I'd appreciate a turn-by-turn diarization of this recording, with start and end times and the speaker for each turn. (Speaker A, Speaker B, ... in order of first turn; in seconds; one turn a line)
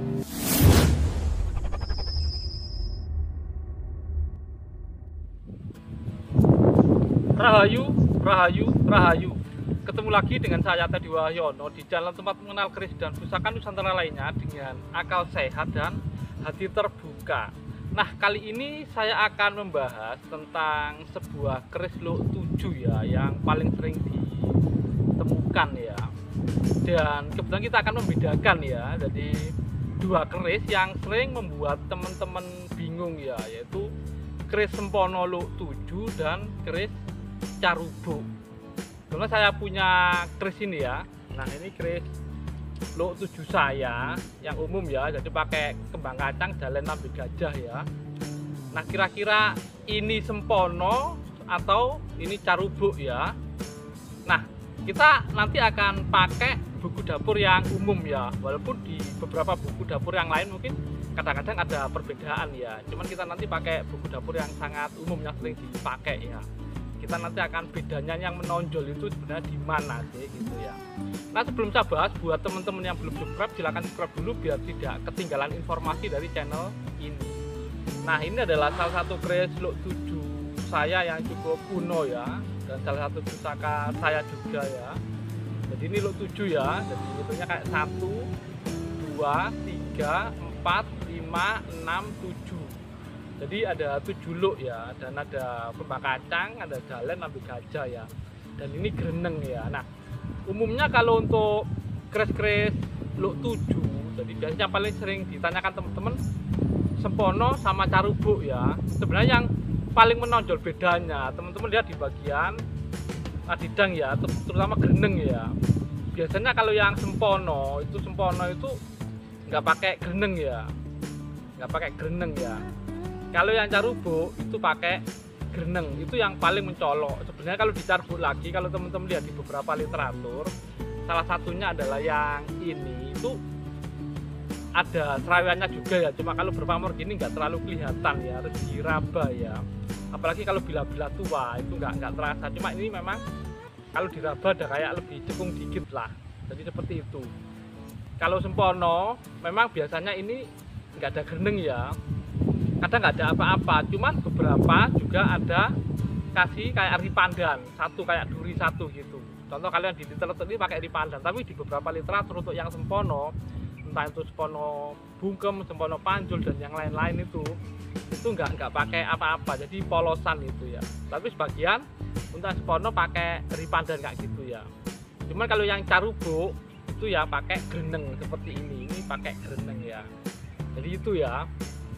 Speaker A: 7.3-24.6
Speaker A: 25.2-26.1
Speaker A: 26.8-33.9
Speaker A: 34.5-36.9
Speaker A: 37.6-38.3
Speaker A: 39.1-42.1
Speaker A: 43.0-47.8
Speaker A: 48.7-53.3
Speaker A: 54.2-66.5
Speaker A: 67.0-70.8
Speaker A: 71.3-77.4
Speaker A: 78.0-85.0
Speaker A: 85.7-88.3
Speaker A: 89.0-92.8
Speaker A: 93.4-99.9
Speaker A: 100.5-106.2
Speaker A: 107.0-112.6
Speaker A: 113.5-115.5
Speaker A: 116.1-118.8
Speaker A: 119.5-120.7
Speaker A: 121.6-122.6
Speaker A: 123.3-130.5
Speaker A: 131.1-133.4
Speaker A: 134.8-139.6
Speaker A: 140.1-143.2
Speaker A: 143.9-147.3
Speaker A: 148.2-150.4
Speaker A: 151.0-151.9
Speaker A: 152.8-155.7
Speaker A: 156.3-163.3
Speaker A: 163.8-167.6
Speaker A: 168.1-174.7
Speaker A: 175.3-180.1
Speaker A: 180.7-181.5